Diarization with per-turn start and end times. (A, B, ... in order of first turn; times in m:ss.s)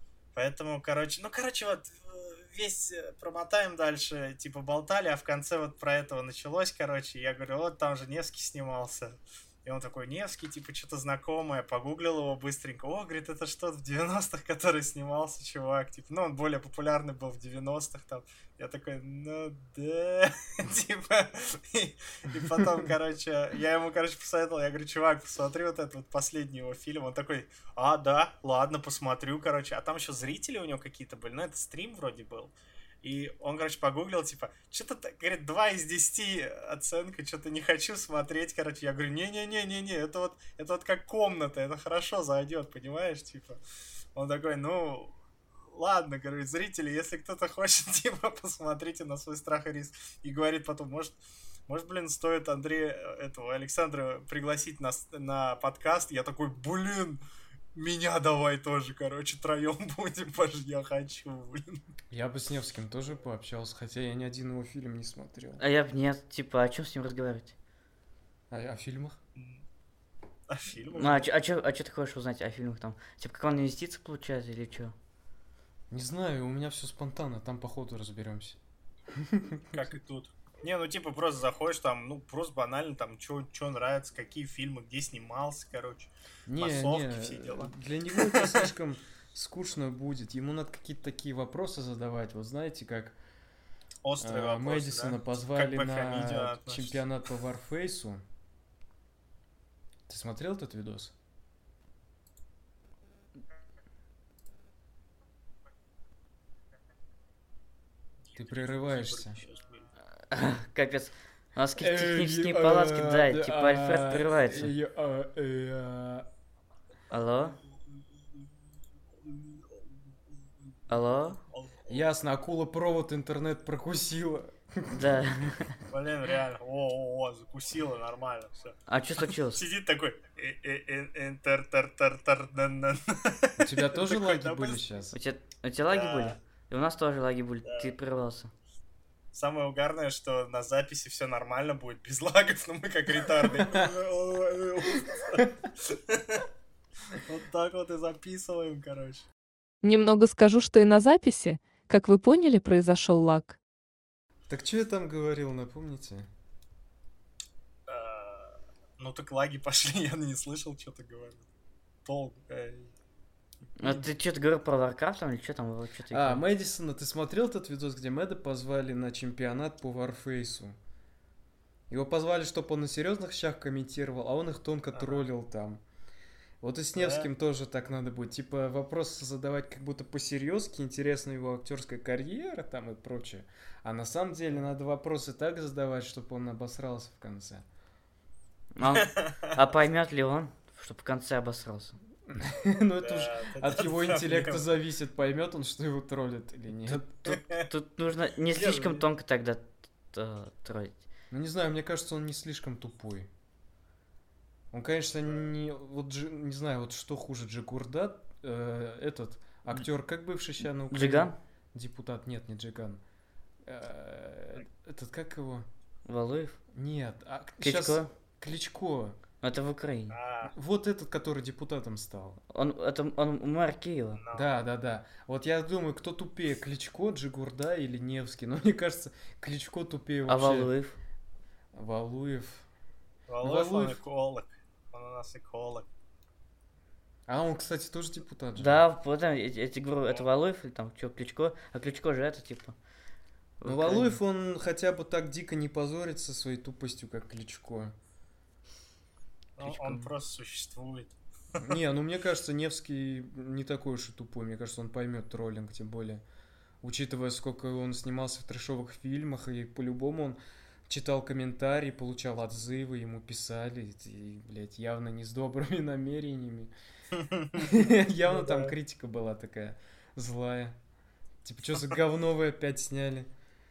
0:00.4-0:43.6 A
0:44.2-0:45.2 A
0:45.7-0:51.2 A
0:51.7-0:57.2 A
0:57.8-1:01.8 A
1:02.1-1:05.6 B
1:05.6-1:07.6 C
1:08.5-1:09.2 B
1:09.4-1:09.6 A
1:10.5-1:11.3 A
1:10.9-1:14.9 C
1:15.9-1:18.6 B
1:19.1-1:19.9 B
1:19.7-1:28.7 A
1:26.5-1:33.2 B
1:34.0-1:37.0 A
1:34.2-1:38.2 B
1:40.1-1:41.1 B
1:48.3-1:49.9 A
1:48.4-1:49.4 B
1:50.3-1:54.7 C
1:51.8-1:56.3 B
1:57.1-1:57.6 C
1:59.2-2:00.0 A
2:00.9-2:01.4 C
2:01.5-2:02.0 A
2:01.9-2:05.2 B
2:04.9-2:05.8 C
2:05.9-2:14.8 A
2:08.9-2:09.6 C
2:13.6-2:15.2 B
2:15.1-2:18.5 C
2:15.9-2:16.4 A
2:17.6-2:18.0 A
2:19.3-2:26.5 A
2:23.6-2:23.9 B
2:27.1-2:29.3 A
2:29.8-2:33.6 D
2:34.5-2:36.3 B
2:37.9-2:41.4 A
2:42.0-2:42.9 A
2:43.8-2:46.4 C
2:46.1-2:50.8 B
2:51.9-2:55.8 B
2:54.9-2:55.2 A
2:56.6-3:07.6 B
2:57.0-2:57.3 A
3:08.8-3:12.0 C
3:08.8-3:09.6 A
3:12.3-3:17.4 B
3:13.0-3:14.7 A
3:17.3-3:17.7 A
3:17.6-3:21.0 C
3:18.5-3:19.0 A
3:21.3-3:23.3 B
3:24.7-3:33.0 B
3:30.9-3:31.4 C
3:33.6-3:35.7 B
3:36.1-3:36.6 C
3:36.7-3:39.2 B
3:37.6-3:38.1 C
3:39.4-3:40.2 C
3:40.1-3:40.5 A
3:40.5-3:42.4 B
3:42.5-3:44.2 C
3:44.2-3:44.5 A
3:44.3-3:50.7 B
3:50.3-3:51.0 C
3:51.7-3:52.7 B
3:53.3-3:55.9 A
3:53.4-3:54.0 B
3:57.3-3:58.8 B
3:58.6-4:02.8 C
4:03.6-4:04.2 C
4:03.6-4:07.9 B
4:09.6-4:11.7 A
4:09.6-4:10.1 C
4:11.6-4:16.2 B
4:16.8-4:26.7 B
4:27.1-4:27.7 A
4:27.6-4:30.8 B
4:28.3-4:28.7 A
4:31.4-4:33.3 B